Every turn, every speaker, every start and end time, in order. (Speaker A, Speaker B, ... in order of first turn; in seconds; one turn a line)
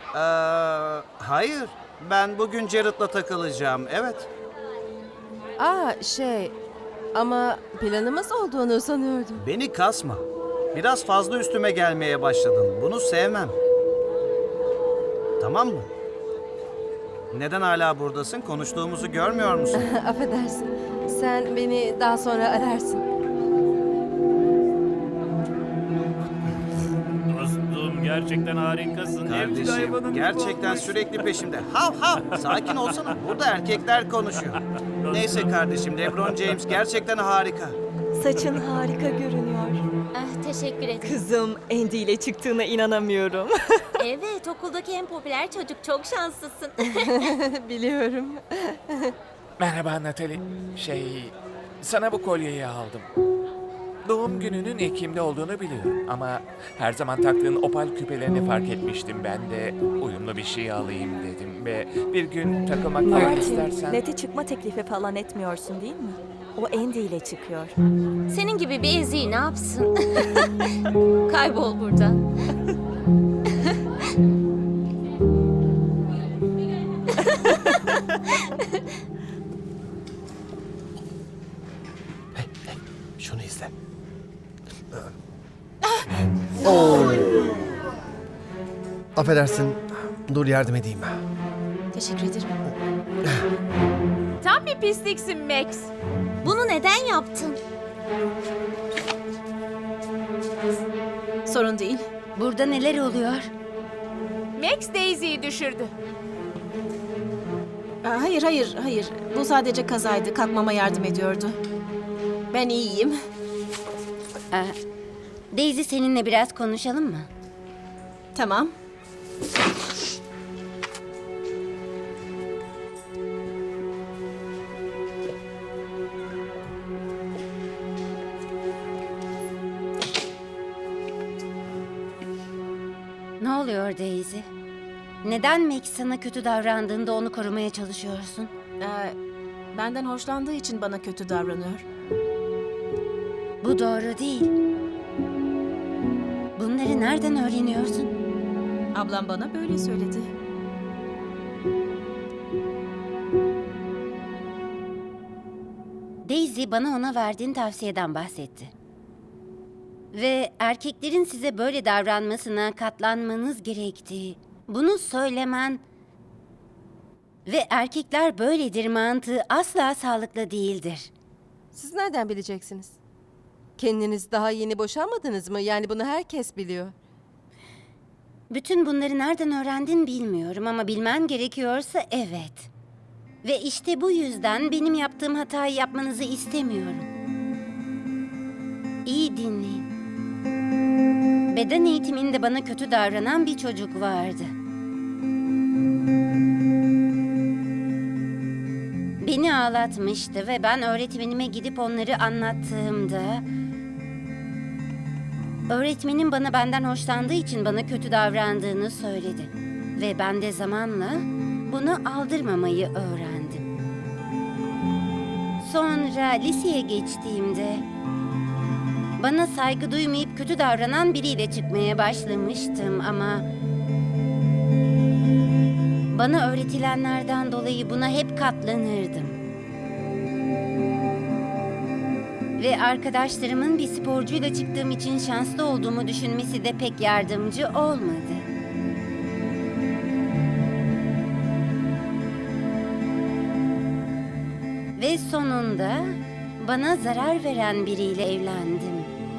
Speaker A: 0.1-4.3
Speaker B: 5.6-6.5
Speaker B: 7.1-9.4
Speaker A: 9.4-13.6
Speaker A: 15.4-15.9
Speaker A: 17.3-19.9
Speaker B: 19.7-23.0
Speaker C: 27.3-31.2
Speaker A: 29.2-37.8
Speaker C: 32.4-33.1
Speaker C: 35.0-35.5
Speaker C: 36.2-36.6
Speaker D: 38.1-39.8
Speaker E: 40.1-41.2
Speaker D: 41.0-43.9
Speaker E: 44.0-47.3
Speaker B: 46.9-49.1
Speaker F: 49.6-53.0
Speaker F: 54.0-64.0
Speaker D: 63.0-67.7
Speaker E: 68.3-70.5
Speaker E: 71.3-72.2
Speaker G: 82.3-83.7
Speaker G: 86.6-87.5
Speaker G: 89.1-91.2
Speaker H: 91.9-92.5
Speaker G: 92.7-93.5
Speaker I: 94.4-95.9
Speaker E: 96.4-97.6
Speaker H: 101.5-102.0
Speaker J: 102.3-103.5
Speaker I: 104.5-105.9
Speaker H: 108.0-111.6
Speaker H: 112.5-113.2
Speaker J: 114.5-114.8
Speaker J: 115.5-117.3
Speaker H: 118.3-118.7
Speaker J: 133.4-134.5
Speaker J: 135.2-138.5
Speaker H: 138.8-139.2
Speaker H: 139.7-141.8
Speaker J: 143.6-144.5
Speaker J: 146.6-148.1
Speaker H: 148.9-150.3
Speaker J: 156.2-158.7
Speaker J: 160.1-165.8
Speaker J: 167.5-171.1
Speaker B: 171.7-173.0
Speaker B: 173.8-176.9
Speaker J: 178.5-182.7
Speaker J: 183.4-187.1
Speaker J: 189.1-189.9
Speaker J: 191.5-194.5
Speaker J: 199.2-203.4
Speaker J: 205.7-213.7
Speaker J: 215.6-217.8
Speaker J: 219.2-223.5
Speaker J: 226.1-229.4
Speaker J: 232.6-238.5
Speaker J: 245.0-249.1